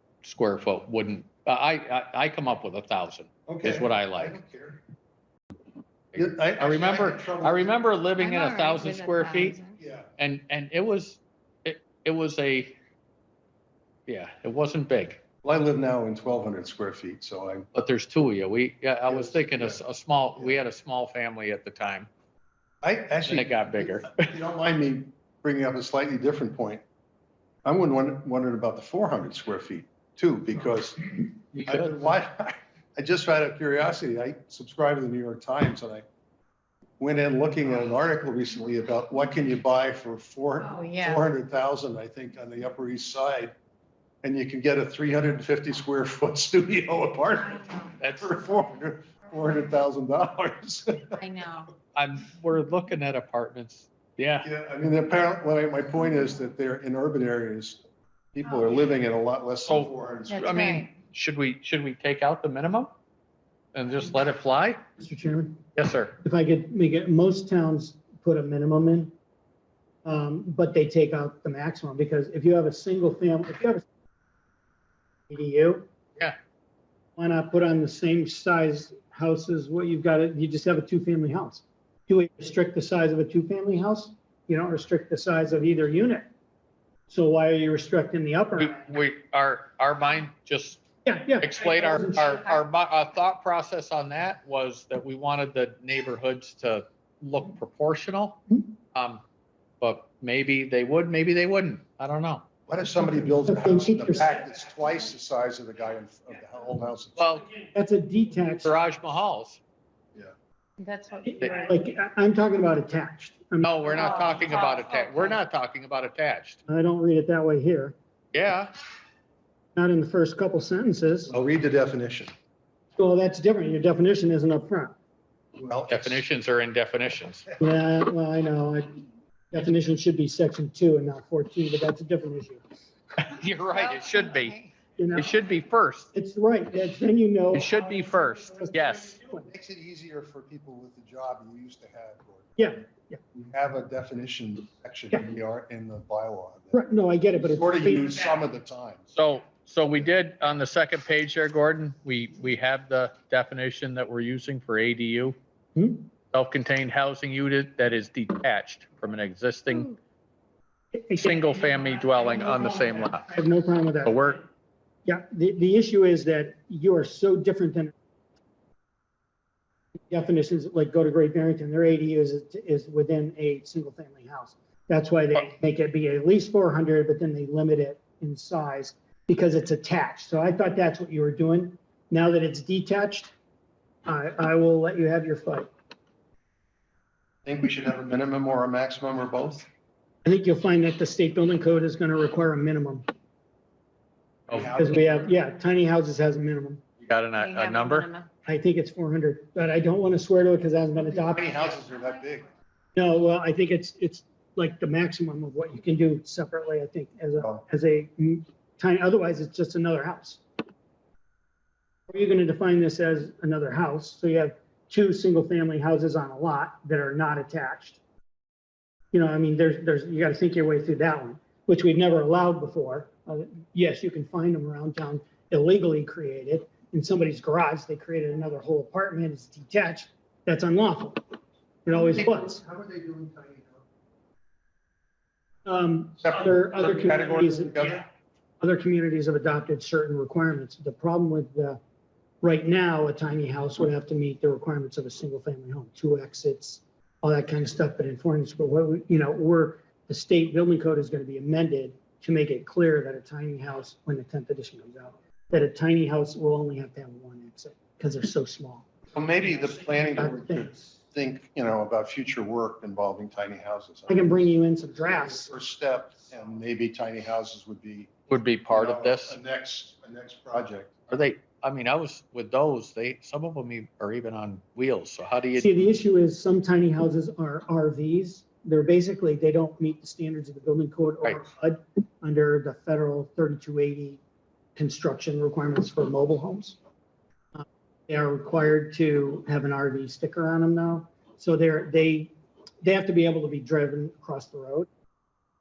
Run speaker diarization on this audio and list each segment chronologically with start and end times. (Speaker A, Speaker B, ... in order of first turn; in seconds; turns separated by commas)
Speaker A: 0.2-4.4, Speaker B: 3.5-4.8, Speaker B: 6.1-7.8, Speaker A: 6.1-9.6, Speaker C: 8.2-9.8, Speaker B: 9.8-10.1, Speaker A: 10.2-12.8, Speaker A: 14.1-15.2, Speaker B: 15.4-17.7, Speaker A: 17.7-22.1, Speaker B: 19.1-19.8, Speaker B: 22.8-26.8, Speaker A: 23.3-24.3, Speaker B: 27.6-36.0, Speaker A: 31.5-32.1, Speaker B: 37.0-43.5, Speaker C: 40.6-41.2, Speaker B: 44.2-51.2, Speaker A: 48.0-48.4, Speaker C: 51.1-51.7, Speaker A: 51.9-54.5, Speaker B: 54.4-57.8, Speaker B: 58.3-60.5, Speaker A: 59.7-62.9, Speaker C: 60.3-60.9, Speaker A: 63.7-64.8, Speaker D: 65.0-65.6, Speaker A: 65.8-66.2, Speaker D: 66.2-69.2, Speaker D: 70.0-73.8, Speaker D: 75.3-75.9, Speaker D: 77.2-86.3, Speaker D: 87.1-88.9, Speaker A: 88.6-90.8, Speaker D: 91.1-92.6, Speaker A: 91.4-98.4, Speaker A: 98.9-99.2, Speaker A: 99.8-102.5, Speaker B: 102.7-107.2, Speaker D: 103.5-104.4, Speaker A: 107.2-107.5, Speaker D: 107.7-108.8, Speaker A: 108.6-109.6, Speaker C: 110.8-111.7, Speaker D: 111.2-114.3, Speaker A: 113.6-116.6, Speaker C: 113.8-115.3, Speaker D: 116.7-118.0, Speaker A: 118.3-118.7, Speaker D: 119.8-121.3, Speaker B: 121.3-122.3, Speaker D: 123.0-125.0, Speaker B: 125.6-126.3, Speaker A: 125.9-127.5, Speaker D: 127.6-132.6, Speaker A: 133.2-134.6, Speaker C: 133.7-134.7, Speaker D: 135.0-135.3, Speaker A: 135.1-136.1, Speaker D: 136.1-137.8, Speaker A: 137.5-139.2, Speaker D: 138.5-139.5, Speaker B: 139.4-142.6, Speaker D: 142.6-143.2, Speaker B: 143.3-146.8, Speaker D: 146.7-148.2, Speaker B: 147.4-149.0, Speaker A: 149.1-155.4, Speaker D: 155.8-156.1, Speaker A: 156.3-159.9, Speaker D: 160.9-164.4, Speaker A: 161.2-163.3, Speaker A: 164.1-164.4, Speaker D: 165.1-167.9, Speaker D: 170.1-183.3, Speaker D: 184.1-185.7, Speaker B: 187.4-189.7, Speaker D: 190.2-193.1, Speaker B: 194.5-195.3, Speaker D: 194.8-196.8, Speaker A: 197.0-198.1, Speaker C: 197.4-198.3, Speaker D: 198.5-201.7, Speaker B: 201.3-202.5, Speaker D: 202.9-210.4, Speaker D: 212.1-218.0, Speaker D: 219.1-231.2, Speaker D: 231.8-232.6, Speaker B: 232.0-233.8, Speaker D: 235.7-238.0, Speaker B: 236.2-238.0, Speaker D: 238.6-241.8, Speaker D: 242.4-258.9, Speaker B: 259.1-264.3, Speaker D: 259.9-260.8, Speaker D: 264.1-265.5, Speaker B: 265.4-268.1, Speaker A: 268.3-269.4, Speaker B: 268.7-270.9, Speaker A: 271.1-275.7, Speaker D: 275.6-284.2, Speaker D: 284.8-286.8, Speaker D: 287.6-294.9